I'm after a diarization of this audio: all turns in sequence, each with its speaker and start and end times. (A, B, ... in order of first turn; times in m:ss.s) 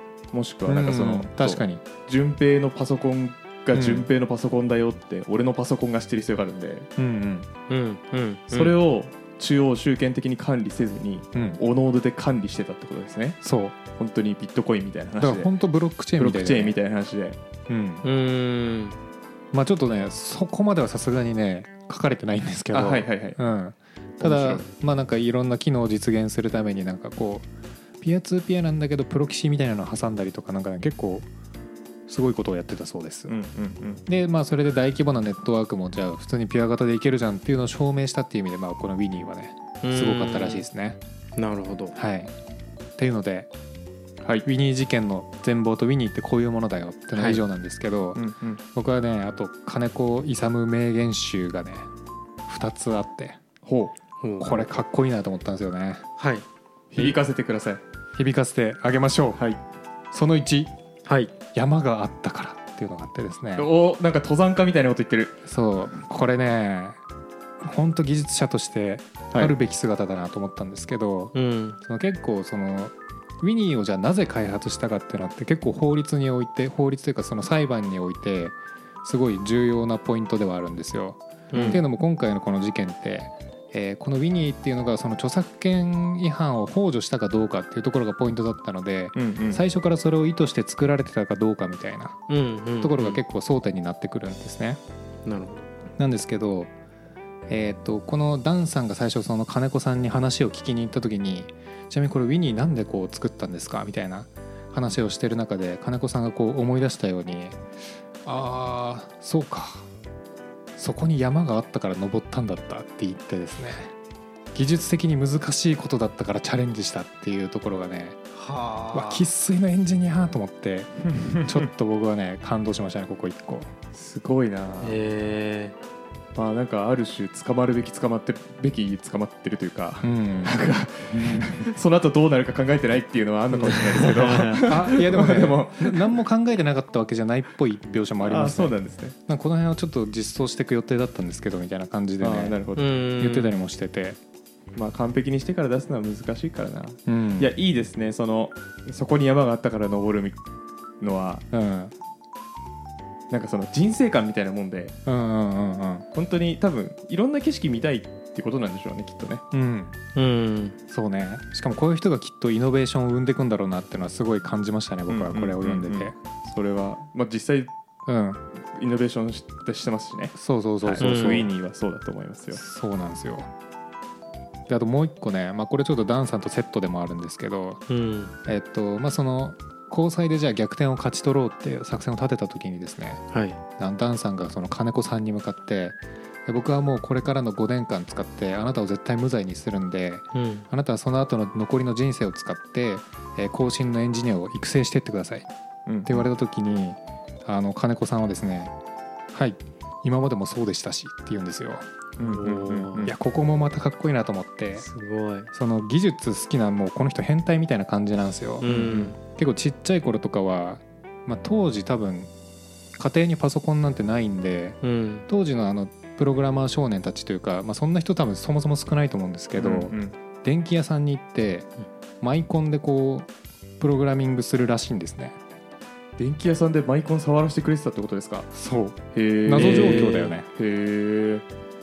0:00.3-0:06.9 A
0:00.7-0:01.8 B
0:03.7-0:04.1 B
0:07.0-0:07.5 B
0:07.7-0:08.8 C
0:08.5-0:13.4 A
0:11.3-0:11.6 B
0:13.4-0:13.8 B
0:14.0-0:15.5 A
0:15.2-0:16.8 B
0:16.2-0:17.4 A
0:17.7-0:18.0 B
0:18.0-0:19.0 C
0:19.5-0:27.5 B
0:22.7-0:23.4 A
0:24.2-0:24.7 A
0:28.0-0:31.3 B
0:32.1-0:33.4 B
0:33.3-0:34.0 A
0:34.1-0:41.0 B
0:39.8-0:40.6 C
0:41.4-0:42.0 C
0:42.0-0:42.3 B
0:43.0-0:43.5 B
0:44.2-0:44.5 A
0:44.4-0:48.2 B
0:47.2-0:47.4 C
0:48.2-0:48.6 A
0:48.7-0:51.9 B
0:52.5-0:53.4 B
0:53.6-0:53.9 A
0:54.2-0:54.7 C
0:54.4-0:56.0 B
0:56.2-0:56.4 C
0:56.9-0:57.8 A
0:58.2-0:59.4 B
1:00.1-1:00.7 B
1:01.1-1:01.3 C
1:01.5-1:03.7 B
1:03.6-1:05.4 A
1:05.4-1:07.0 B
1:07.6-1:32.2 B
1:11.3-1:11.8 C
1:21.5-1:21.8 C
1:21.5-1:21.8 A
1:29.2-1:29.6 A
1:32.3-1:33.2 C
1:32.8-1:34.8 B
1:35.3-1:35.7 C
1:36.0-1:36.7 B
1:37.5-1:47.6 B
1:48.2-1:49.9 B
1:50.8-1:53.9 B
1:54.5-1:58.2 B
1:58.3-1:59.3 C
1:58.9-2:03.7 B
2:01.4-2:01.6 A
2:03.9-2:05.0 A
2:04.8-2:05.8 C
2:06.4-2:16.0 A
2:10.0-2:10.6 B
2:11.2-2:11.5 B
2:13.6-2:14.9 C
2:14.7-2:22.6 B
2:18.2-2:19.2 A
2:22.2-2:22.9 A
2:22.8-2:23.6 C
2:23.2-2:24.2 B
2:24.8-2:30.4 A
2:27.1-2:27.5 B
2:31.0-2:31.4 A
2:31.5-2:31.9 B
2:33.3-2:35.0 A
2:35.1-2:36.1 B
2:36.1-2:39.4 A
2:39.5-2:40.0 B
2:40.2-2:40.8 C
2:40.9-2:46.2 B
2:45.1-2:47.7 A
2:48.1-2:48.4 B
2:48.6-2:52.6 A
2:50.4-2:51.5 B
2:51.0-2:51.5 C
2:52.5-2:53.5 B
2:54.7-2:57.8 B
2:57.9-2:58.3 C
2:58.5-3:03.2 B
3:03.3-3:03.6 C
3:03.8-3:15.5 B
3:10.3-3:10.7 C
3:15.9-3:16.2 A
3:16.0-3:18.7 B
3:19.3-3:21.8 B
3:22.2-3:23.1 A
3:22.2-3:23.1 C
3:23.0-3:24.9 B
3:24.8-3:25.5 C
3:25.5-3:28.7 B
3:28.6-3:29.2 C
3:28.6-3:29.1 A
3:29.2-3:32.3 B
3:33.0-3:41.7 B
3:34.8-3:35.3 C
3:39.6-3:40.2 A
3:42.2-3:43.3 B
3:43.8-3:45.4 B
3:46.2-3:48.5 A
3:48.5-3:50.5 B
3:49.1-3:51.4 A
3:49.6-3:50.3 C